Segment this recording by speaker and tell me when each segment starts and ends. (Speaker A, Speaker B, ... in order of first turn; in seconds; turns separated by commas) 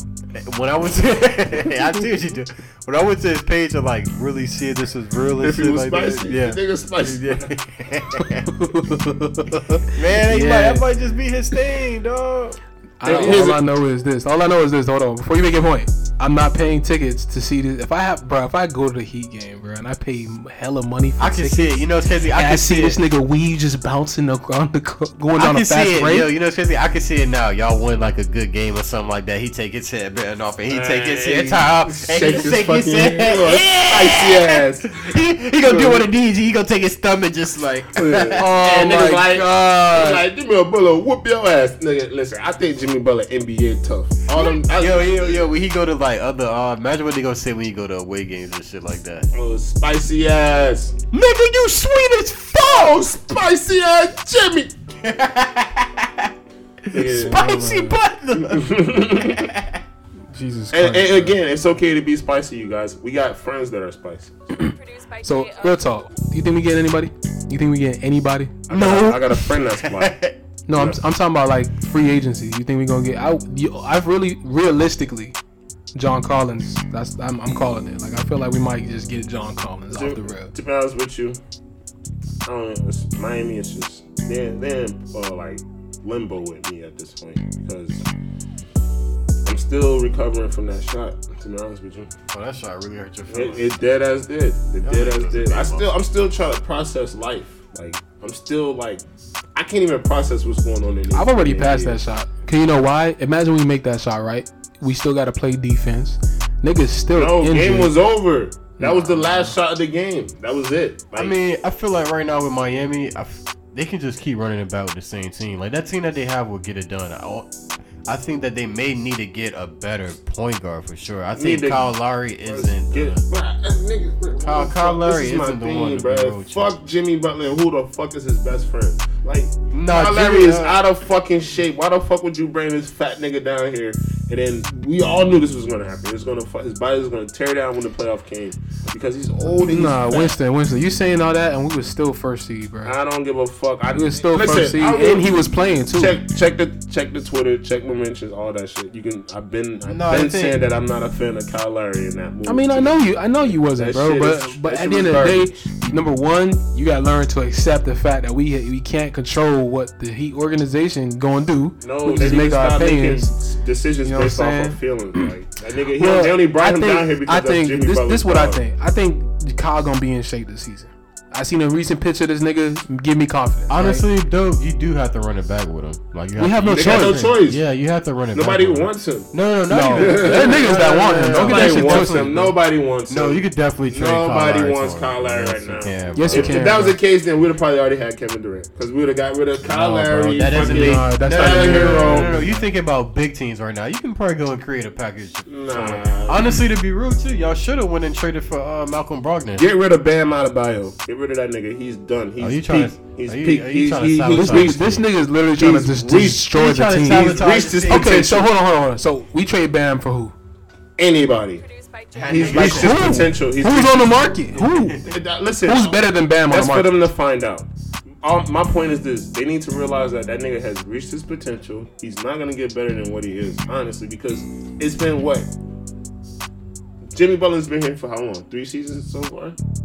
Speaker A: 0.3-8.6, Speaker B: 5.4-7.5, Speaker C: 8.2-10.8, Speaker A: 9.5-13.6, Speaker C: 13.0-26.3, Speaker B: 13.0-13.6, Speaker A: 21.2-23.0, Speaker A: 25.3-39.1, Speaker B: 30.7-35.1, Speaker B: 35.6-36.1, Speaker B: 37.9-45.5, Speaker C: 38.4-40.2, Speaker A: 44.3-49.3, Speaker B: 49.3-51.0, Speaker A: 51.1-53.0, Speaker B: 52.6-54.7, Speaker A: 55.0-56.3, Speaker A: 56.9-59.8, Speaker B: 56.9-57.4, Speaker C: 56.9-58.0, Speaker B: 58.4-59.5, Speaker C: 60.3-61.4, Speaker B: 60.7-64.4, Speaker D: 64.6-66.0, Speaker C: 64.6-69.1, Speaker B: 68.7-70.2, Speaker A: 68.8-70.3, Speaker C: 70.7-75.3, Speaker B: 70.7-71.0, Speaker C: 75.9-80.5, Speaker B: 79.9-81.4, Speaker B: 82.4-88.0, Speaker B: 89.4-92.1, Speaker A: 92.3-93.7, Speaker B: 93.3-99.0, Speaker A: 94.8-95.9, Speaker B: 99.5-102.0, Speaker C: 101.1-107.9, Speaker B: 107.1-111.3, Speaker C: 108.8-109.5, Speaker A: 111.2-117.5, Speaker A: 118.0-123.2, Speaker B: 121.3-121.9, Speaker B: 122.4-140.3, Speaker A: 124.4-126.8, Speaker A: 129.7-130.8, Speaker C: 139.7-142.9, Speaker B: 142.8-155.6, Speaker C: 143.9-146.2, Speaker A: 149.8-150.6, Speaker C: 152.4-163.3, Speaker B: 161.8-168.6, Speaker C: 164.0-164.8, Speaker C: 166.0-174.1, Speaker A: 173.7-182.5, Speaker C: 176.4-177.3, Speaker B: 176.7-177.6, Speaker B: 178.3-179.3, Speaker C: 179.7-182.5, Speaker B: 179.9-192.4, Speaker A: 183.1-186.7, Speaker C: 186.1-187.0, Speaker A: 189.7-199.7, Speaker C: 190.4-192.6, Speaker B: 195.5-196.6, Speaker B: 199.6-204.9, Speaker A: 202.4-205.0, Speaker C: 204.3-210.3, Speaker B: 205.6-208.5, Speaker A: 206.5-208.3, Speaker B: 211.0-211.6, Speaker D: 211.6-212.7, Speaker A: 212.1-213.2, Speaker B: 212.3-214.3, Speaker C: 212.4-215.0, Speaker A: 214.5-215.2, Speaker B: 215.0-217.7, Speaker C: 215.6-216.9, Speaker B: 218.2-225.5, Speaker B: 227.1-229.6